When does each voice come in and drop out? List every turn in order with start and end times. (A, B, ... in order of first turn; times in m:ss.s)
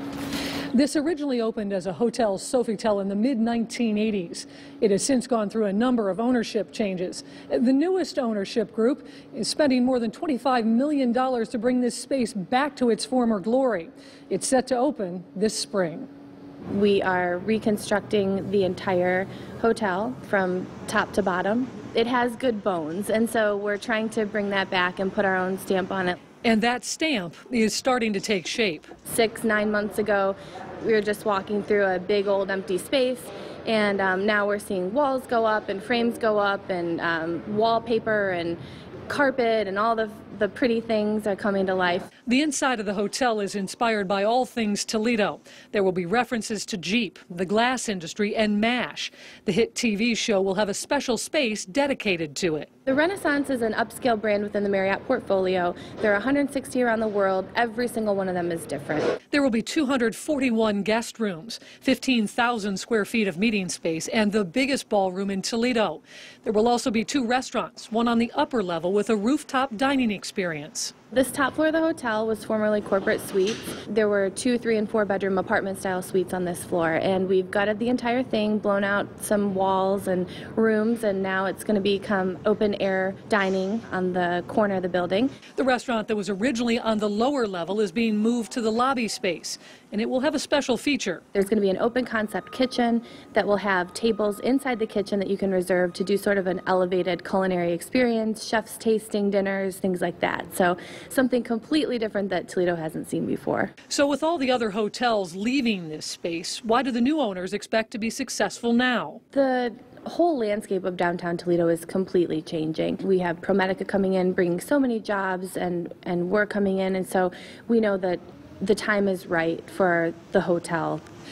0:00.7-0:16.1 A
0:16.7-0:26.2 B
0:26.4-0:28.9 A
0:29.0-0:42.1 B
0:42.3-0:52.7 A
0:52.9-0:59.2 B
0:59.3-1:10.9 A
1:11.1-1:25.3 B
1:25.6-1:31.2 A
1:31.3-1:43.7 B
1:43.9-1:49.2 A
1:49.3-2:01.0 B